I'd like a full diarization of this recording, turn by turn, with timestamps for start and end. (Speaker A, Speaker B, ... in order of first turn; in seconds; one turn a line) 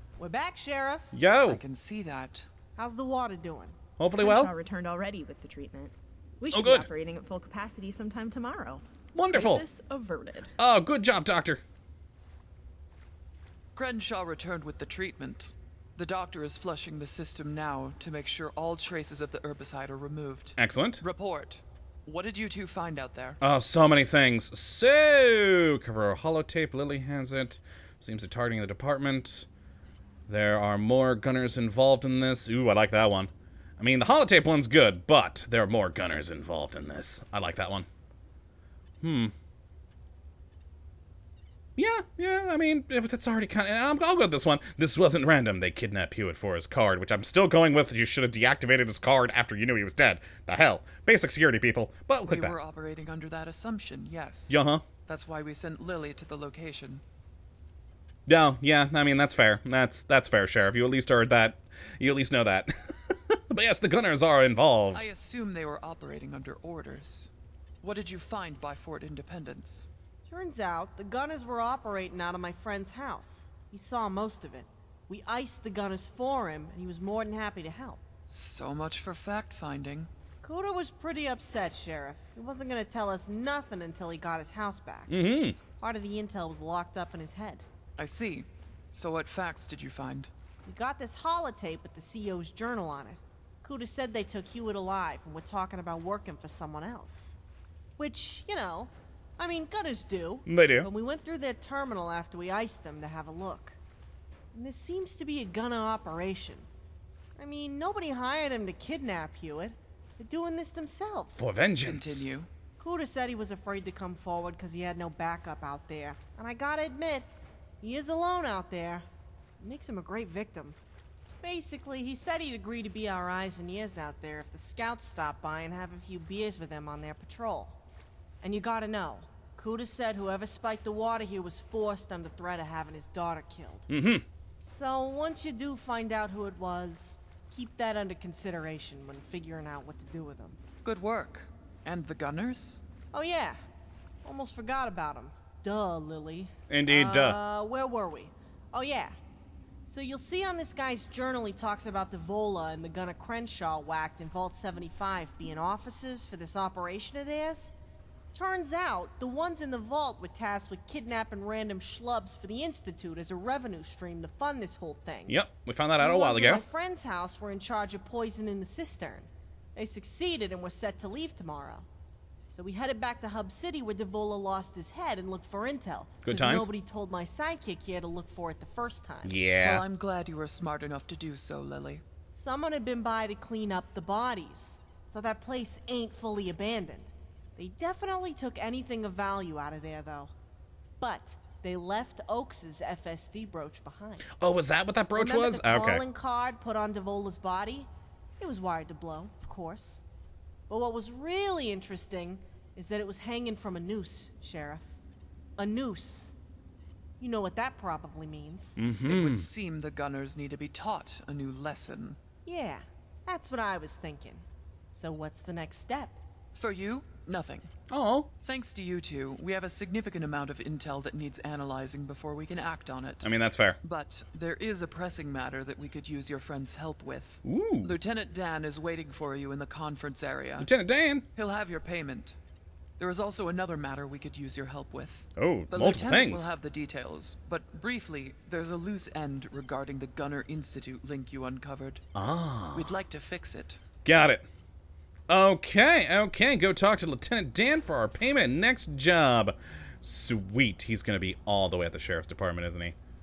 Speaker A: 0.2-1.1
Speaker B: 1.1-1.6
Speaker C: 1.5-2.5
Speaker A: 2.8-3.8
Speaker B: 4.0-4.5
Speaker D: 4.2-10.5
Speaker B: 6.5-6.9
Speaker B: 9.2-9.7
Speaker B: 10.6-11.6
Speaker C: 13.8-23.4
Speaker B: 20.6-21.0
Speaker B: 23.4-29.5
Speaker B: 30.3-37.9
Speaker B: 39.0-39.3
Speaker B: 41.8-52.6
Speaker C: 52.3-57.0
Speaker B: 54.5-54.9
Speaker B: 58.3-65.0
Speaker C: 64.9-67.3
Speaker C: 67.8-69.9
Speaker A: 70.2-78.0
Speaker C: 78.3-80.1
Speaker A: 80.4-85.1
Speaker B: 85.1-85.6
Speaker A: 85.8-87.7
Speaker C: 88.0-90.3
Speaker A: 90.7-97.4
Speaker A: 98.0-103.8
Speaker B: 100.5-100.9
Speaker A: 104.5-106.7
Speaker A: 107.4-111.5
Speaker B: 111.4-112.3
Speaker C: 111.8-112.5
Speaker A: 112.8-117.3
Speaker A: 117.8-119.1
Speaker A: 119.6-120.8
Speaker A: 121.4-127.8
Speaker A: 128.4-133.9
Speaker B: 133.9-134.3
Speaker A: 134.6-140.6
Speaker C: 140.8-142.8
Speaker A: 143.1-143.6
Speaker A: 144.2-149.2
Speaker B: 146.7-147.4
Speaker A: 149.8-157.7
Speaker A: 158.3-165.4
Speaker B: 165.3-166.6
Speaker A: 166.0-171.9
Speaker A: 172.5-179.3
Speaker B: 176.2-176.7
Speaker B: 179.2-179.8
Speaker C: 179.6-182.0
Speaker A: 182.3-190.3
Speaker A: 191.0-194.3
Speaker B: 194.3-196.1
Speaker A: 195.1-200.0
Speaker A: 200.7-204.9
Speaker A: 205.6-206.3
Speaker A: 207.2-208.8
Speaker B: 208.8-209.5
Speaker C: 209.1-212.2
Speaker A: 212.4-216.2
Speaker C: 216.6-217.7
Speaker B: 217.9-218.3
Speaker C: 218.4-223.3
Speaker B: 223.2-223.8
Speaker C: 223.8-230.7
Speaker B: 227.4-227.9
Speaker B: 230.6-231.2
Speaker C: 231.3-232.4
Speaker C: 233.0-242.0
Speaker B: 235.4-236.5
Speaker B: 242.2-242.9
Speaker C: 242.7-243.8
Speaker B: 244.1-244.5
Speaker B: 245.3-253.0